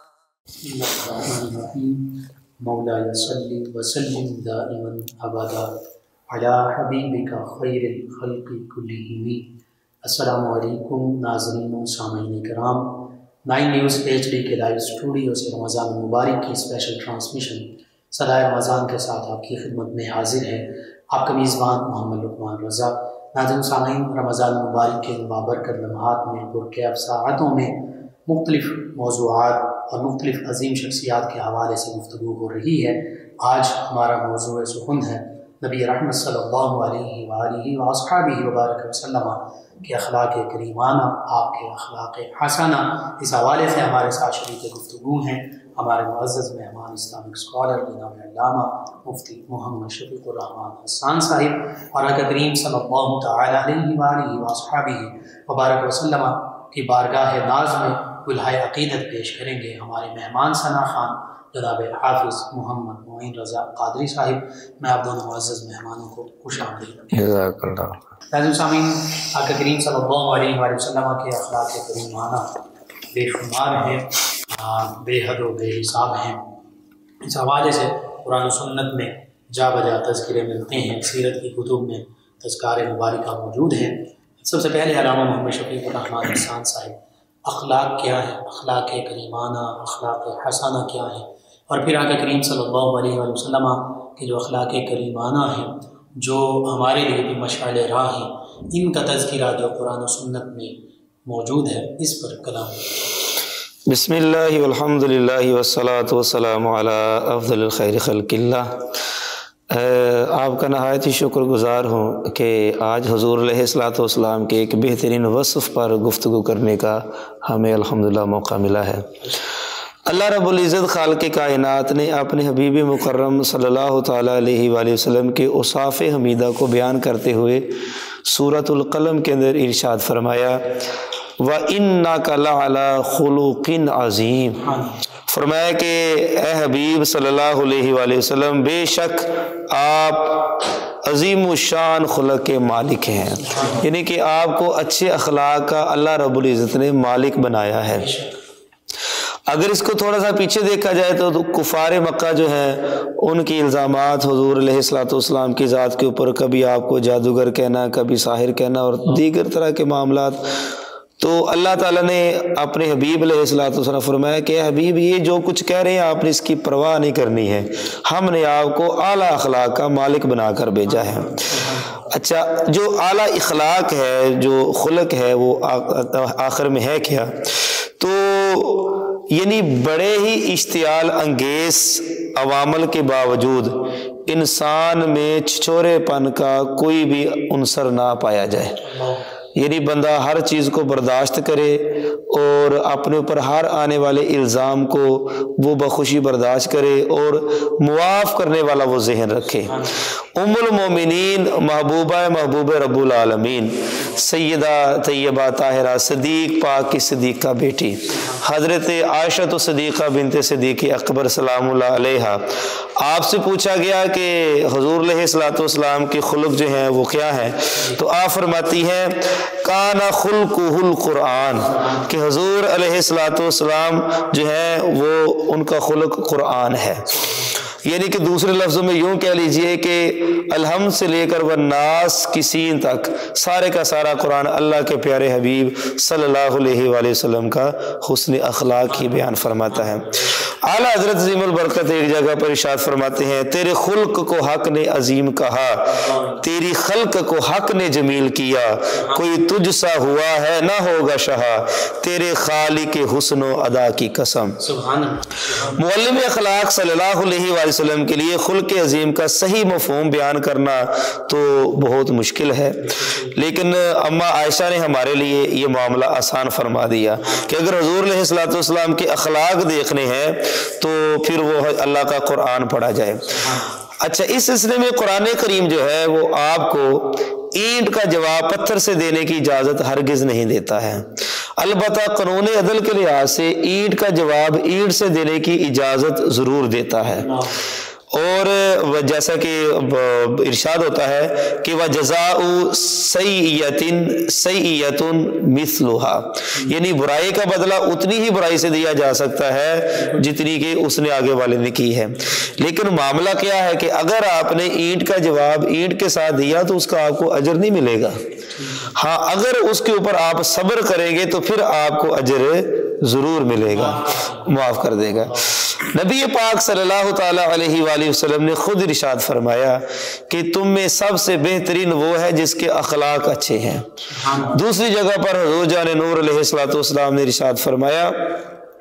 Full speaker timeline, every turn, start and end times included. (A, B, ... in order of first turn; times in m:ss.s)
0:00.6-0:05.8 A
0:06.3-1:07.2 A
1:07.1-1:08.0 B
1:08.3-1:12.5 A
1:13.1-1:16.5 A
1:17.2-1:43.1 A
1:43.9-1:49.0 B
1:49.7-1:59.3 B
2:00.0-2:10.9 B
2:11.4-2:14.6 B
2:14.6-2:15.0 A
2:15.3-2:28.1 B
2:23.4-2:23.9 A
2:27.9-2:28.3 A
2:29.5-3:08.8 B
2:50.9-2:52.1 A
3:08.8-3:09.3 A
3:09.6-3:47.1 B
3:19.6-3:20.1 A
3:28.1-3:28.4 A
3:41.6-3:42.1 A
3:47.1-3:47.7 A
3:47.7-4:14.6 B
3:58.9-4:00.4 A
4:05.9-4:06.4 A
4:08.9-4:09.3 A
4:14.6-4:15.8 A
4:15.7-4:47.3 B
4:22.8-4:23.4 A
4:27.2-4:27.6 A
4:33.2-4:33.8 A
4:47.1-4:47.6 A
4:48.1-5:08.2 B
5:00.0-5:00.2 A
5:02.2-5:02.6 A
5:08.5-5:09.0 A
5:08.9-5:28.4 B
5:13.6-5:14.6 A
5:15.2-5:15.6 A
5:24.1-5:24.6 A